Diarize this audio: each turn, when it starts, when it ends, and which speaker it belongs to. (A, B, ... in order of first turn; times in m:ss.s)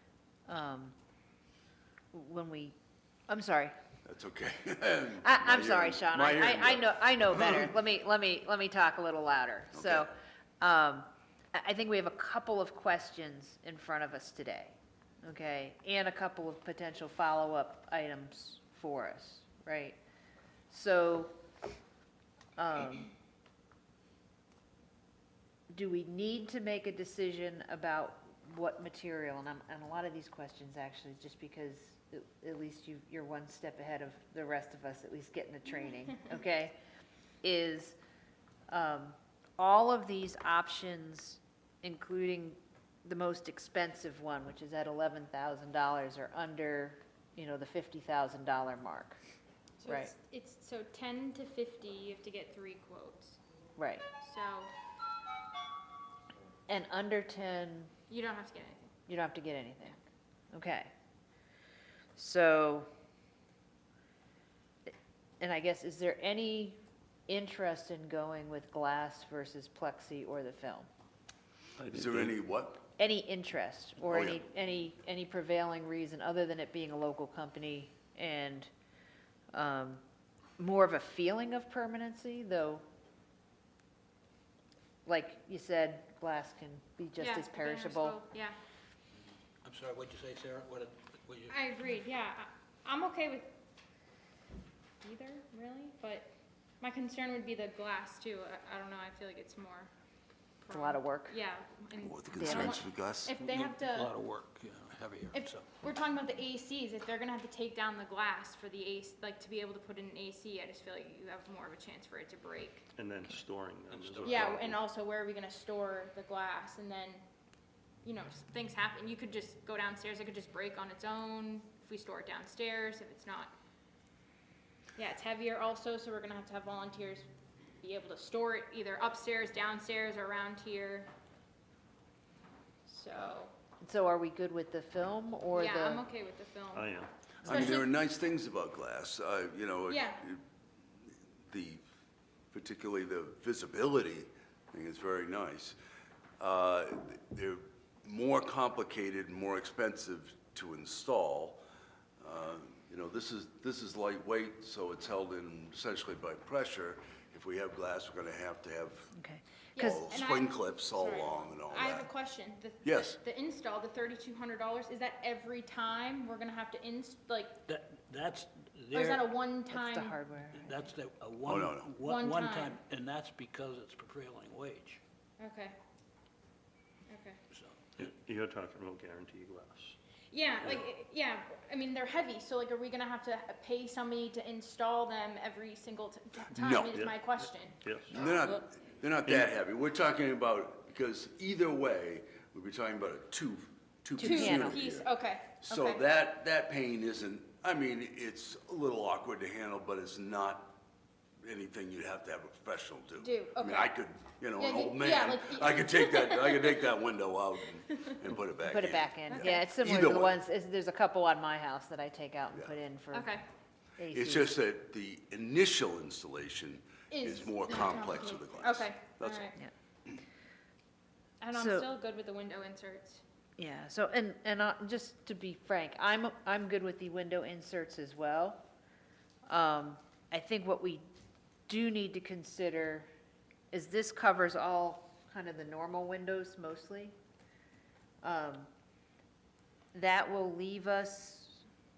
0:00.5-0:00.9 A
0:02.1-0:02.8 A
0:03.3-0:03.7 A
0:04.0-0:07.7 B
0:05.2-0:20.0 A
0:09.7-0:10.1 B
0:20.7-0:21.4 A
0:22.6-0:23.1 A
0:25.7-0:36.8 A
0:37.4-0:38.0 A
0:38.7-0:49.2 A
0:49.8-0:53.4 C
0:53.8-0:54.0 A
0:54.2-0:54.7 C
0:56.7-0:57.9 A
0:58.1-0:58.9 C
0:59.1-1:00.0 A
1:00.5-1:00.9 A
1:02.2-1:02.9 A
1:05.4-1:10.9 A
1:11.8-1:12.8 B
1:13.0-1:18.7 A
1:19.5-1:20.0 A
1:20.6-1:22.8 A
1:25.0-1:28.2 A
1:27.2-1:28.6 C
1:29.6-1:31.6 D
1:31.5-1:33.5 C
1:35.0-1:36.3 C
1:36.8-1:39.9 C
1:40.6-1:44.1 C
1:40.7-1:41.3 A
1:42.0-1:43.3 B
1:42.4-1:42.8 A
1:43.4-1:45.7 D
1:45.3-1:52.9 C
1:53.0-1:54.8 E
1:53.9-1:54.5 D
1:54.2-1:57.2 C
1:58.0-2:03.5 C
2:05.0-2:07.2 C
2:07.8-2:11.1 C
2:12.9-2:13.5 C
2:13.8-2:16.0 A
2:15.5-2:17.9 C
2:16.7-2:17.1 E
2:17.4-2:20.4 B
2:17.5-2:17.8 A
2:19.9-2:20.2 C
2:21.5-2:21.8 B
2:22.5-2:25.8 B
2:26.4-2:31.6 B
2:32.2-2:39.1 B
2:39.1-2:40.1 A
2:39.7-2:47.6 C
2:39.8-2:42.1 B
2:42.8-2:43.2 B
2:47.7-2:49.2 D
2:48.9-2:50.2 C
2:49.7-2:50.8 A
2:50.5-2:55.0 D
2:51.4-2:51.9 B
2:52.0-2:52.8 C
2:55.4-2:55.7 C
2:57.1-2:57.4 C
2:57.5-2:58.1 D
2:58.0-3:00.0 E
3:00.3-3:08.6 C
3:06.6-3:07.0 B
3:06.9-3:07.2 E
3:07.8-3:08.1 E
3:08.1-3:15.1 B
3:14.2-3:14.8 A
3:14.2-3:16.0 C
3:15.6-3:20.8 B
3:21.4-3:30.4 B
3:23.2-3:23.9 C
3:24.6-3:26.9 C
3:28.7-3:33.4 A
3:29.3-3:29.7 C
3:33.1-3:33.4 C
3:34.0-3:34.5 A
3:34.1-3:39.5 B
3:37.1-3:39.6 C
3:41.4-3:43.2 C
3:41.5-3:41.9 A
3:43.6-3:48.6 A
3:49.5-3:51.0 A
3:51.7-3:53.1 A
3:53.7-3:57.1 A
3:58.2-3:58.7 A
3:59.9-4:01.6 A